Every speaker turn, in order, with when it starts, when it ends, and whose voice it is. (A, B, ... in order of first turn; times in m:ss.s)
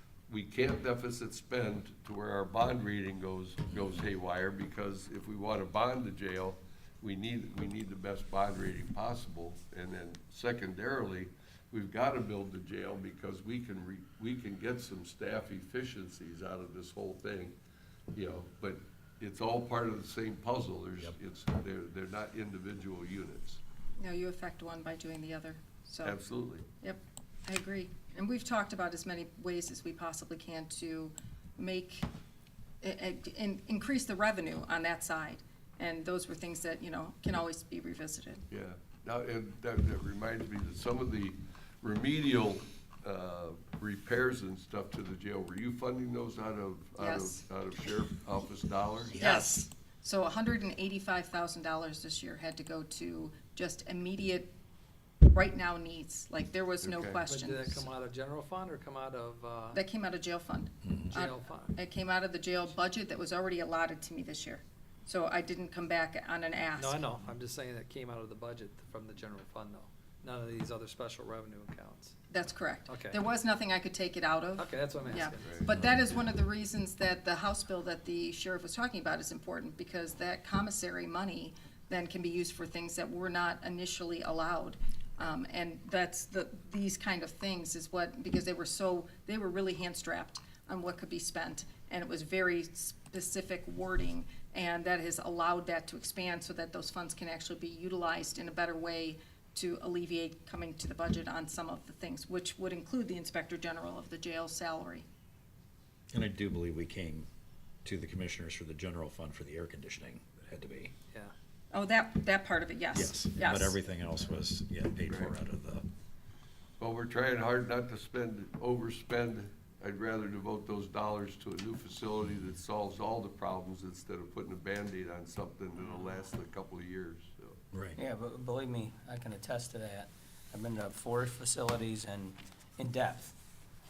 0:00.3-0:17.6 A
0:18.1-0:23.6 A
0:24.0-0:26.2 B
0:26.0-0:26.7 A
0:26.8-0:32.1 B
0:32.8-0:38.4 B
0:38.5-0:49.2 A
0:47.0-0:47.4 B
0:49.2-0:49.6 C
0:49.2-0:54.5 B
0:55.2-0:57.9 B
0:56.8-0:57.2 A
0:57.3-0:59.8 D
0:59.7-1:07.0 B
1:01.1-1:01.8 D
1:06.8-1:12.2 D
1:12.3-1:45.1 B
1:12.9-1:13.2 D
1:14.6-1:15.8 D
1:15.4-1:15.7 A
1:46.1-1:47.3 C
1:47.8-1:50.9 C
1:51.7-1:53.8 B
1:52.9-1:55.8 C
1:55.1-1:55.3 A
1:56.8-2:07.6 A
2:07.7-2:08.0 C
2:08.0-2:13.3 E